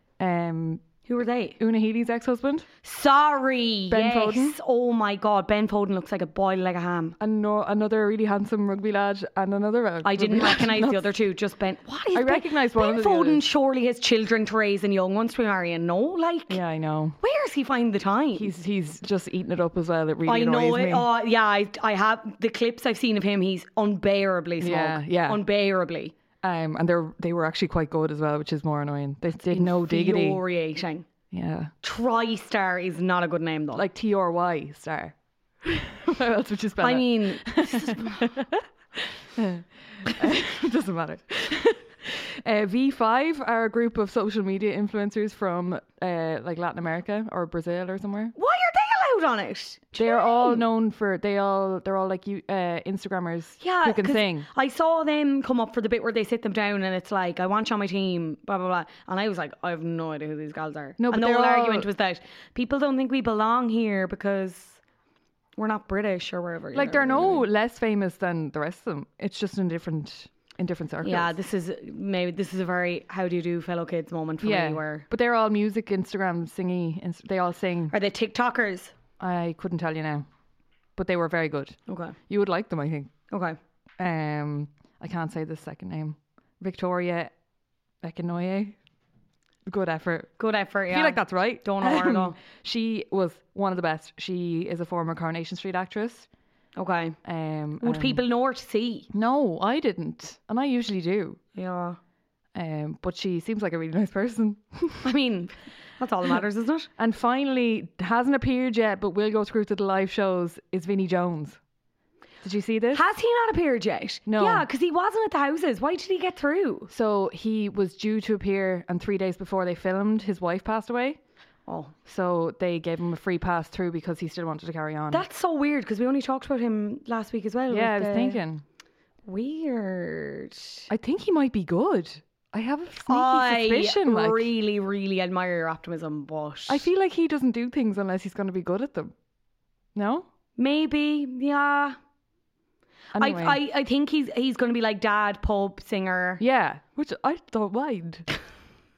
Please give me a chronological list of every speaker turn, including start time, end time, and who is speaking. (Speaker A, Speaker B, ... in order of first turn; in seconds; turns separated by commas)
Speaker A: 0.2-0.8, Speaker B: 1.1-1.6, Speaker A: 1.6-2.7, Speaker B: 2.8-7.2, Speaker A: 3.9-4.6, Speaker A: 7.2-11.1, Speaker B: 10.0-16.6, Speaker A: 12.1-13.4, Speaker A: 16.5-17.2, Speaker B: 17.2-18.5, Speaker A: 18.4-21.1, Speaker B: 20.3-26.1, Speaker A: 24.6-25.4, Speaker A: 26.4-30.4, Speaker B: 29.4-31.1, Speaker A: 31.3-31.7, Speaker B: 31.8-33.9, Speaker A: 33.8-48.3, Speaker B: 36.8-38.3, Speaker B: 48.4-50.6, Speaker A: 50.0-54.5, Speaker B: 53.6-64.8, Speaker A: 61.0-61.9, Speaker B: 65.6-67.5, Speaker A: 66.7-71.3, Speaker B: 71.0-75.1, Speaker A: 74.4-77.9, Speaker B: 77.9-78.9, Speaker A: 79.2-80.3, Speaker A: 81.0-83.1, Speaker B: 81.9-82.2, Speaker B: 83.3-83.6, Speaker A: 84.0-87.3, Speaker A: 88.0-88.7, Speaker A: 89.7-90.3, Speaker B: 90.4-92.4, Speaker A: 90.9-96.3, Speaker B: 96.8-97.2, Speaker A: 97.2-98.2, Speaker B: 97.8-99.1, Speaker A: 99.1-101.4, Speaker B: 101.6-102.0, Speaker A: 102.5-105.1, Speaker B: 105.0-106.9, Speaker A: 107.0-111.6, Speaker A: 112.4-113.0, Speaker B: 112.9-116.9, Speaker A: 114.3-114.7, Speaker A: 116.9-121.2, Speaker B: 121.7-121.9, Speaker A: 122.1-125.2, Speaker B: 125.1-128.4, Speaker A: 127.7-128.6, Speaker B: 129.3-130.9, Speaker A: 130.9-134.5, Speaker B: 133.1-136.9, Speaker A: 136.7-139.1, Speaker A: 139.9-140.3, Speaker B: 140.6-142.0, Speaker A: 143.2-143.6, Speaker B: 143.2-146.4, Speaker A: 146.4-148.3